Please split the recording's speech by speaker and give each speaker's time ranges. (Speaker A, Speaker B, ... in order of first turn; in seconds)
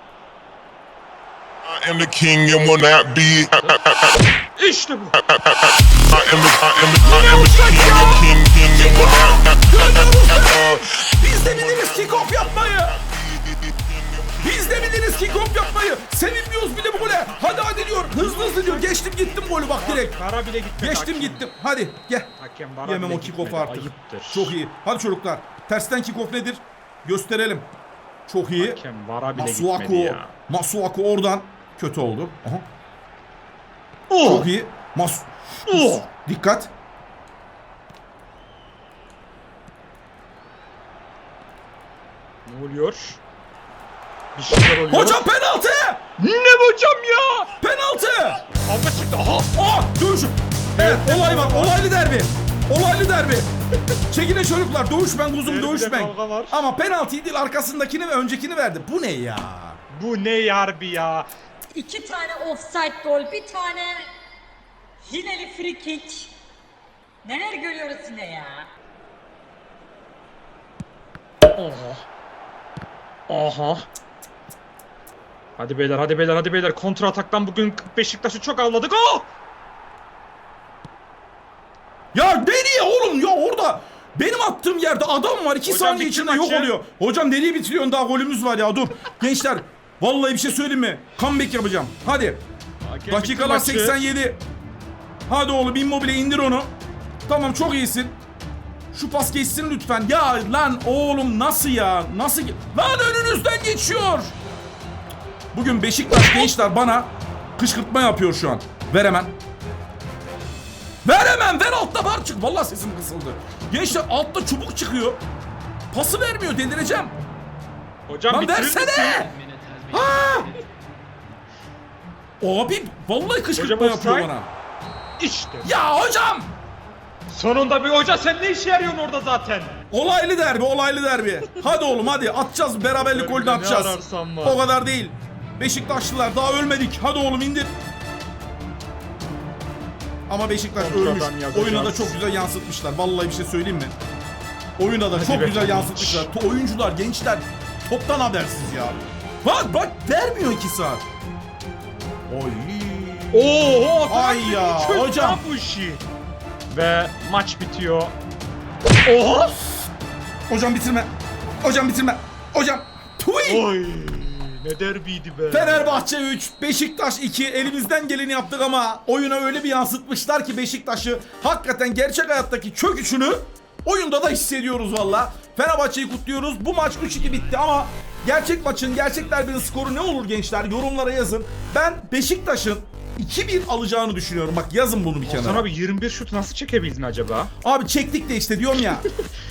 Speaker A: 1.6-4.2, 6.1-9.5, 10.4-15.2, 17.3-18.1
Speaker B: 4.5-5.2, 18.1-19.0, 19.7-21.5, 22.3-24.6, 28.6-30.3, 34.1-34.5, 35.7-36.1, 42.5-43.2, 44.3-45.3, 46.2-47.5, 48.6-49.5, 50.8-51.8, 55.4-56.6, 59.9-61.3, 71.5-72.0, 73.3-73.8, 75.6-79.3, 85.6-86.7, 92.8-94.0, 118.1-119.3, 123.5-124.3, 125.2-125.7, 127.3-129.8, 132.9-134.6, 140.7-142.2, 145.1-146.3, 153.3-156.0, 156.7-158.1, 159.0-159.6, 163.4-166.0, 185.2-187.5
Speaker C: 7.0-13.0, 14.4-20.2, 20.8-22.3, 22.8-27.7, 28.3-28.8, 29.3-32.6, 34.2-36.7, 44.9-46.0, 47.6-48.4, 49.5-53.5, 54.1-59.8, 82.1-92.4, 93.1-94.4, 95.3-96.7, 97.3-98.2, 98.9-104.3, 105.5-109.3, 111.0-115.2, 115.9-117.2, 118.3-119.3, 119.9-120.5, 122.4-124.5, 125.6-126.5, 129.9-137.7, 140.3-143.9, 144.8-151.0, 152.3-155.4, 160.5-161.1, 161.6-163.7, 165.5-185.7, 187.6-189.1
Speaker D: 61.7-64.1, 65.0-66.3, 67.2-68.7